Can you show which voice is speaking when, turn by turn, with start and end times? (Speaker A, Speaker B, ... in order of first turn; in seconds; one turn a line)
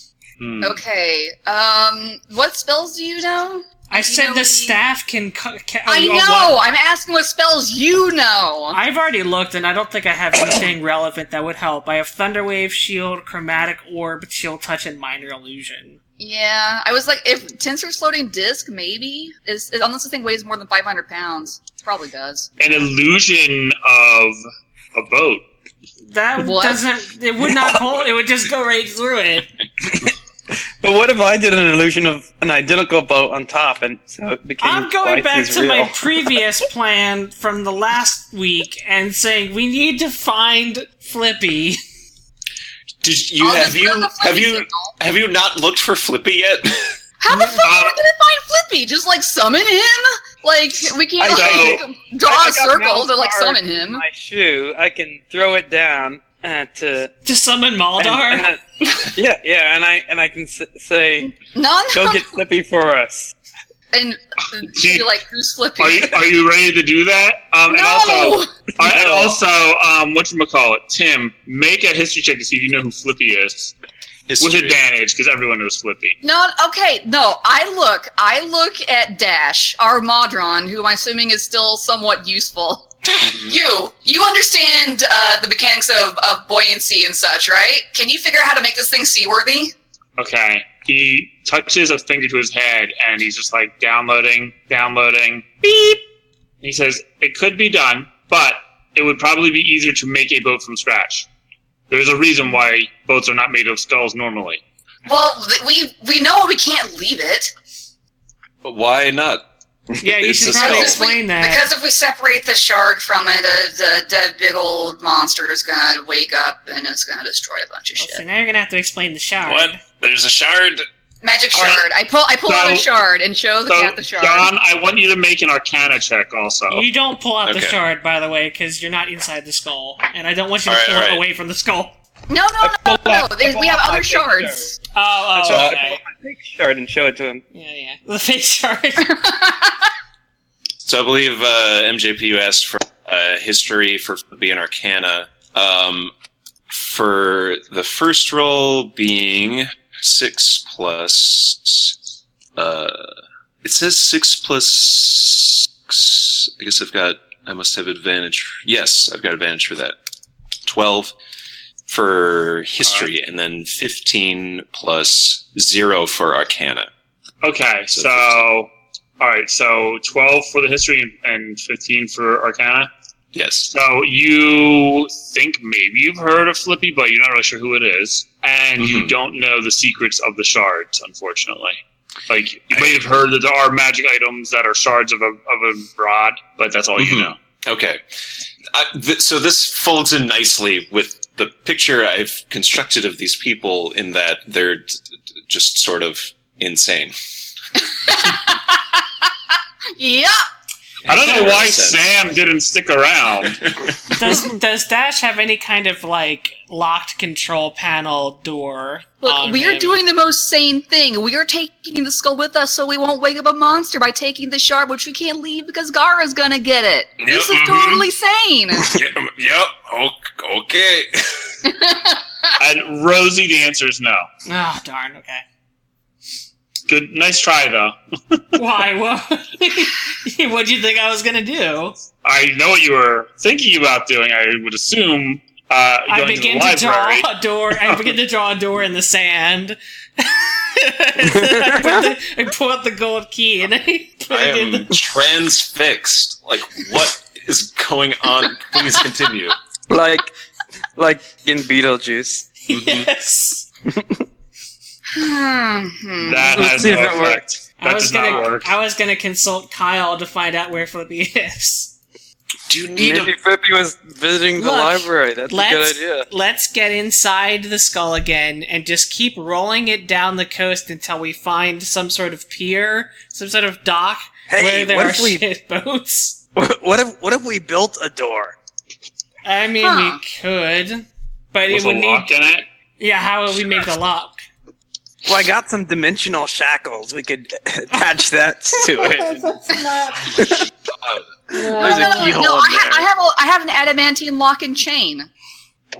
Speaker A: 0.4-0.8
Speaker B: 0.6-4.8
Speaker C: 3.9-6.6
Speaker B: 5.9-8.8
Speaker C: 8.7-16.0
Speaker B: 16.2-22.5
Speaker A: 22.6-24.4
Speaker A: 24.9-25.4
Speaker C: 26.1-29.5
Speaker B: 26.4-26.8
Speaker D: 29.8-30.1
Speaker D: 30.8-36.4
Speaker C: 34.6-41.8
Speaker E: 43.0-47.0
Speaker B: 43.4-45.0
Speaker B: 47.2-54.0
Speaker A: 47.6-48.0
Speaker D: 51.2-57.1
Speaker A: 51.3-51.8
Speaker C: 57.2-58.5
Speaker D: 58.0-61.4
Speaker B: 61.5-62.2
Speaker D: 61.9-63.3
Speaker B: 63.9-66.2
Speaker A: 64.7-65.1
Speaker A: 65.8-73.7
Speaker B: 67.7-68.5
Speaker D: 68.9-69.3
Speaker E: 74.3-74.8
Speaker A: 74.4-76.2
Speaker B: 76.2-89.7
Speaker E: 83.2-83.6
Speaker A: 90.2-96.0
Speaker A: 96.6-101.3
Speaker A: 101.9-104.6
Speaker B: 105.1-107.5
Speaker E: 108.6-109.4
Speaker C: 110.0-111.6
Speaker E: 110.1-111.0
Speaker B: 110.5-118.2
Speaker C: 118.0-119.8
Speaker E: 119.4-120.8
Speaker B: 121.2-124.5
Speaker A: 121.5-121.8
Speaker A: 122.5-122.9
Speaker A: 123.7-126.9
Speaker C: 126.7-132.0
Speaker E: 127.5-127.8
Speaker E: 130.7-131.2
Speaker B: 132.3-134.7
Speaker D: 132.6-134.7
Speaker C: 134.9-136.0
Speaker D: 135.3-137.4
Speaker C: 137.5-139.2
Speaker B: 139.1-139.7
Speaker E: 140.8-146.1
Speaker E: 146.7-152.0
Speaker E: 152.6-153.1
Speaker E: 153.6-159.9
Speaker E: 160.7-161.1
Speaker E: 161.9-166.9
Speaker A: 167.4-172.9
Speaker E: 167.9-168.4
Speaker E: 173.3-173.7
Speaker A: 173.7-187.4
Speaker E: 178.8-179.2
Speaker E: 182.7-183.1
Speaker E: 187.0-188.0
Speaker E: 188.7-197.2
Speaker B: 198.0-199.2
Speaker B: 200.0-200.4
Speaker E: 201.1-202.0
Speaker A: 201.1-203.7
Speaker C: 204.1-210.0
Speaker B: 209.2-218.9
Speaker E: 217.2-218.1
Speaker E: 218.8-221.6
Speaker B: 221.7-222.5
Speaker A: 222.6-224.3
Speaker C: 224.5-225.4
Speaker A: 226.9-228.4
Speaker C: 228.6-232.0
Speaker A: 232.2-238.1
Speaker C: 236.1-244.9
Speaker D: 241.2-242.1
Speaker E: 244.3-249.6
Speaker D: 249.9-250.3
Speaker D: 251.0-252.5
Speaker C: 252.7-253.7
Speaker E: 252.7-253.1
Speaker D: 253.9-254.2
Speaker B: 255.1-256.9
Speaker A: 256.2-258.7
Speaker D: 256.6-257.4
Speaker C: 257.8-261.9
Speaker E: 262.7-263.3
Speaker D: 263.0-266.3
Speaker C: 264.6-276.4
Speaker D: 274.5-275.4
Speaker D: 276.6-278.6
Speaker C: 279.4-282.3
Speaker B: 279.8-280.2
Speaker A: 281.7-282.6
Speaker C: 283.0-284.4
Speaker D: 285.3-289.4
Speaker C: 289.3-290.4
Speaker D: 290.3-290.7
Speaker C: 291.5-292.4
Speaker D: 291.6-293.1
Speaker B: 291.7-295.3